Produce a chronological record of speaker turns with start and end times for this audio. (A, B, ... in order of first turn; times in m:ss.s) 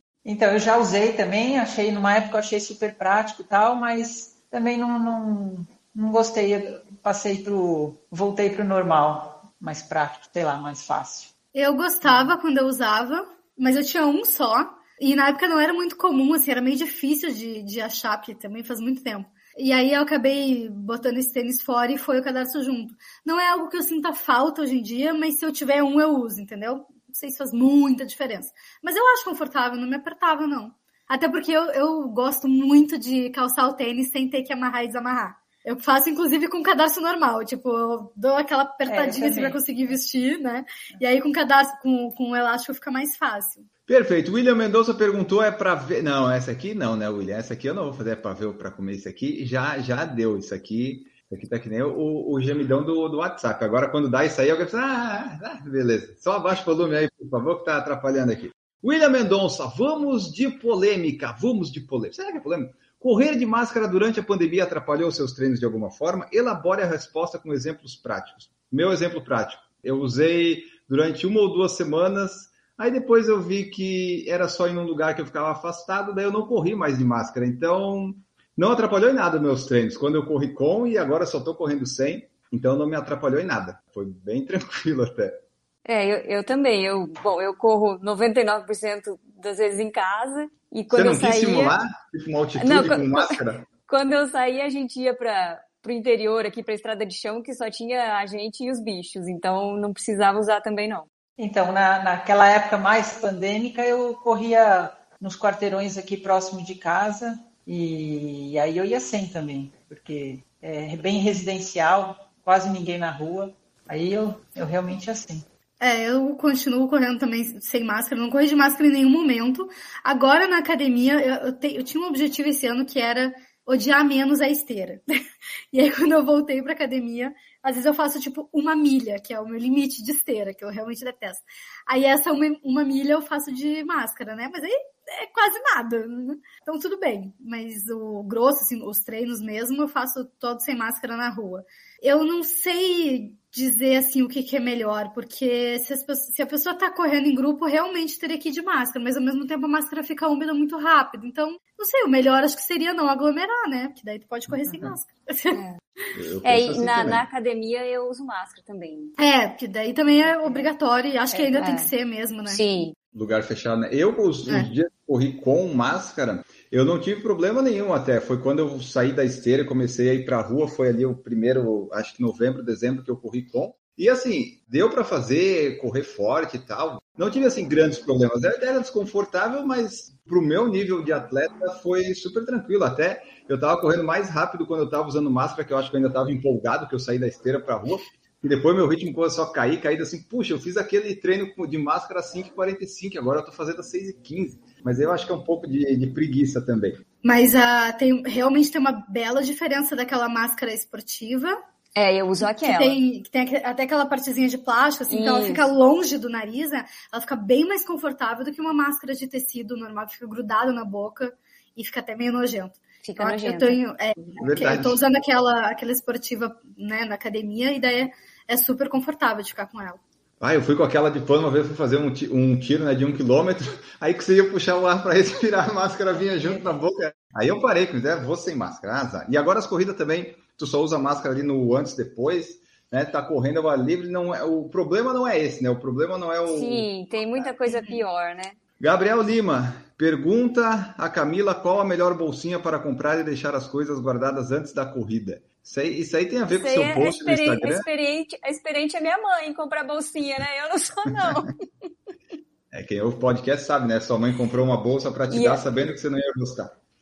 0:00.2-0:11.3 A
0:11.5-0:43.6 B
0:38.9-0:39.6 A
0:43.9-1:25.4 C
1:25.8-1:31.7 D
1:30.9-1:33.6 C
1:32.6-1:41.0 D
1:41.4-1:55.4 A
1:55.8-2:05.0 B
2:05.7-2:35.6 B
2:35.5-2:35.8 D
2:36.1-2:37.2 C
2:36.4-2:39.1 D
2:39.2-2:42.6 B
2:41.5-2:41.9 D
2:42.4-2:42.9 D
2:43.1-3:17.0 C
3:17.2-3:21.6 B
3:21.9-3:23.0 D
3:22.4-3:40.0 B
3:25.1-3:25.7 D
3:33.0-3:33.8 D
3:34.4-3:35.0 C
3:40.4-3:57.5 C
3:56.5-3:58.6 D
3:58.8-4:07.9 C
4:06.5-4:11.6 D
4:11.1-4:11.4 C
4:12.7-4:16.7 C
4:15.3-4:15.9 D